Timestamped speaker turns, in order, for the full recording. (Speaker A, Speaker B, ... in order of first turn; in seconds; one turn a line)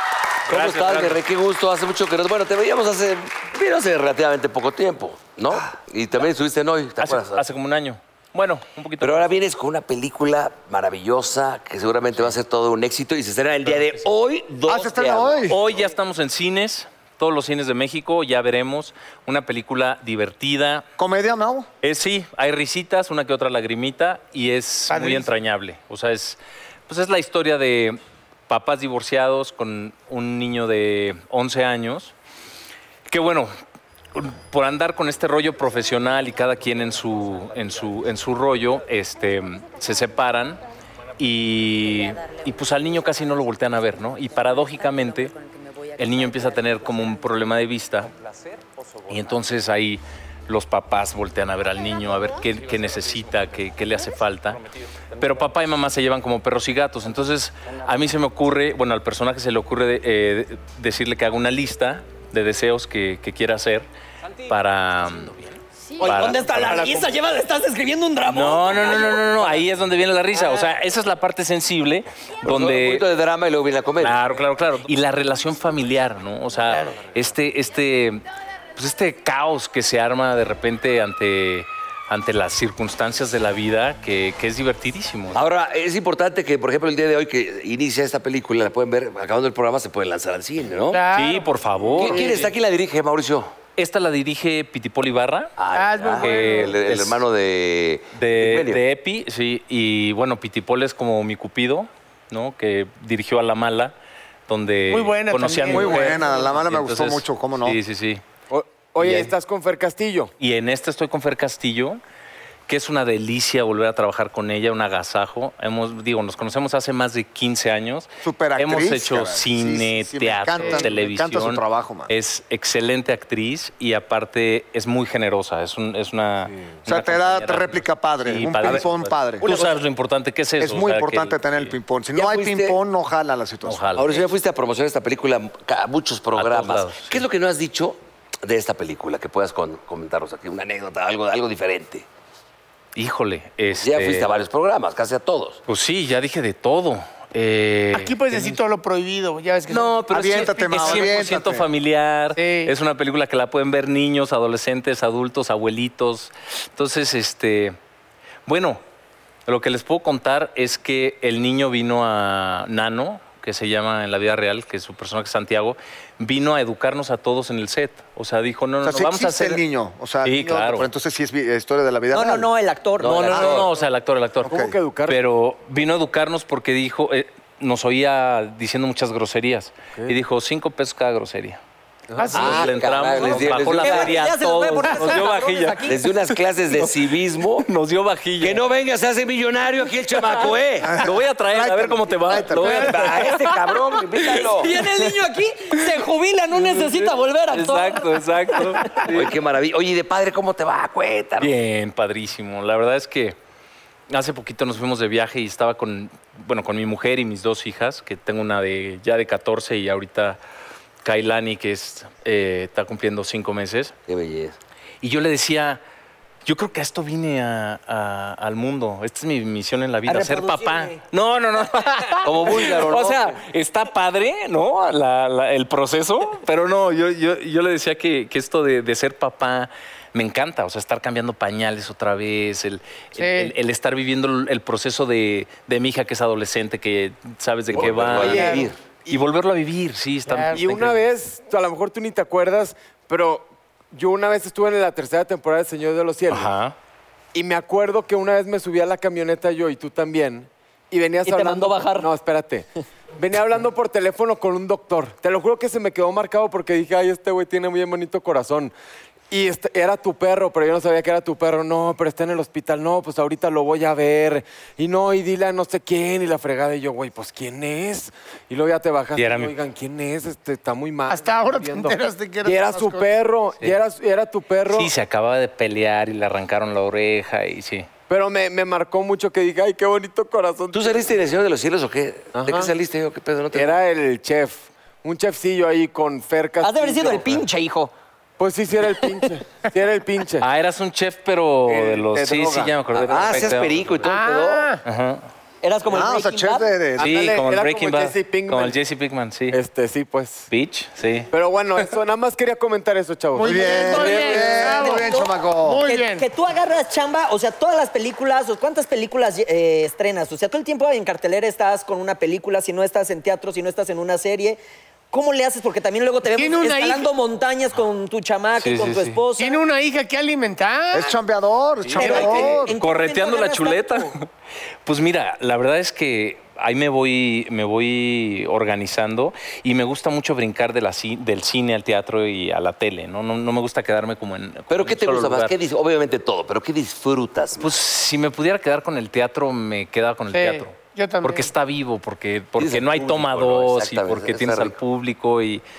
Speaker A: 0.5-1.2
Speaker B: 0.5-7.4
Speaker A: 7.0-9.3
Speaker B: 9.0-15.5
Speaker A: 13.7-14.0
Speaker C: 14.7-15.6
Speaker A: 15.5-20.8
Speaker C: 21.0-21.7
Speaker A: 21.8-28.0
Speaker D: 24.9-25.3
Speaker A: 28.5-32.1
Speaker A: 33.1-33.5
Speaker A: 34.1-40.6
Speaker A: 41.2-45.3
Speaker A: 46.0-48.1
Speaker A: 49.0-63.9
Speaker A: 64.4-67.0
Speaker E: 66.0-69.2
Speaker A: 68.3-73.0
Speaker B: 72.4-74.2
Speaker A: 74.0-78.2
Speaker D: 76.7-77.0
Speaker A: 78.8-85.4
Speaker B: 85.3-91.0
Speaker D: 90.9-91.6
Speaker A: 91.1-92.5
Speaker B: 92.0-93.5
Speaker F: 92.0-92.5
Speaker A: 93.8-95.5
Speaker B: 95.6-98.8
Speaker D: 95.7-96.8
Speaker A: 96.2-97.2
Speaker A: 98.1-103.9
Speaker A: 104.5-108.2
Speaker D: 104.9-106.4
Speaker C: 105.7-107.8
Speaker F: 108.5-110.3
Speaker A: 109.0-109.3
Speaker A: 110.4-112.0
Speaker A: 112.7-131.7
Speaker C: 118.2-122.1
Speaker C: 126.8-129.5
Speaker B: 129.4-129.7
Speaker C: 130.6-133.8
Speaker B: 132.1-132.8
Speaker A: 133.6-134.2
Speaker B: 133.9-142.1
Speaker A: 136.3-137.2
Speaker A: 142.9-144.3
Speaker B: 143.8-145.6
Speaker A: 145.7-148.6
Speaker D: 147.9-151.3
Speaker A: 149.7-157.8
Speaker C: 150.1-151.7
Speaker D: 152.3-152.7
Speaker A: 158.4-158.8
Speaker A: 159.5-169.6
Speaker C: 168.8-172.5
Speaker A: 170.2-170.9
Speaker E: 172.1-173.6
Speaker B: 173.0-173.7
Speaker A: 173.0-181.6
Speaker C: 173.3-173.6
Speaker F: 174.4-175.2
Speaker C: 174.5-174.7
Speaker F: 182.1-183.5
Speaker D: 182.2-182.6
Speaker B: 182.3-184.2
Speaker A: 182.3-186.9
Speaker E: 183.8-186.0
Speaker B: 185.8-187.7
Speaker A: 187.6-188.6
Speaker B: 188.4-191.0
Speaker A: 190.3-193.6
Speaker C: 190.8-192.9
Speaker B: 192.6-194.7
Speaker E: 194.3-199.1
Speaker A: 196.6-199.3
Speaker B: 199.1-201.5
Speaker A: 201.4-203.3
Speaker A: 204.1-210.4
Speaker A: 211.0-213.9
Speaker B: 214.1-214.6
Speaker A: 215.0-215.8
Speaker A: 216.4-241.0
Speaker E: 220.1-221.0
Speaker B: 222.2-223.4
Speaker D: 233.2-233.5
Speaker B: 237.7-238.8
Speaker F: 237.7-239.1
Speaker D: 238.2-238.7
Speaker D: 240.2-240.7
Speaker F: 240.5-246.5
Speaker A: 246.3-246.7
Speaker F: 247.3-252.7
Speaker E: 251.2-252.1
Speaker F: 253.2-258.7
Speaker F: 259.3-274.9
Speaker A: 269.1-269.5
Speaker D: 271.1-273.1
Speaker A: 274.7-277.9
Speaker F: 278.1-281.1
Speaker B: 280.7-283.8
Speaker F: 282.3-282.7
Speaker F: 283.5-287.4
Speaker E: 286.6-287.9
Speaker F: 288.4-290.4
Speaker A: 290.4-293.9
Speaker F: 291.7-292.6
Speaker C: 291.7-292.7
Speaker B: 292.9-294.7
Speaker D: 294.0-294.8
Speaker A: 294.8-295.2
Speaker E: 295.6-296.7
Speaker C: 295.9-297.3
Speaker F: 297.0-298.8
Speaker A: 297.0-299.6
Speaker F: 299.5-300.4
Speaker A: 300.5-301.3
Speaker F: 301.3-304.7
Speaker C: 303.4-305.8
Speaker D: 303.4-306.3
Speaker E: 303.6-305.3
Speaker E: 305.8-314.6
Speaker E: 315.1-319.6
Speaker D: 316.3-317.1
Speaker A: 318.6-319.2
Speaker D: 319.4-321.1
Speaker C: 320.9-322.7
Speaker A: 321.8-324.2
Speaker E: 321.9-324.1
Speaker D: 322.0-322.6
Speaker A: 324.9-335.5
Speaker B: 334.7-337.7
Speaker A: 337.6-345.6
Speaker D: 340.3-341.5
Speaker B: 342.6-344.8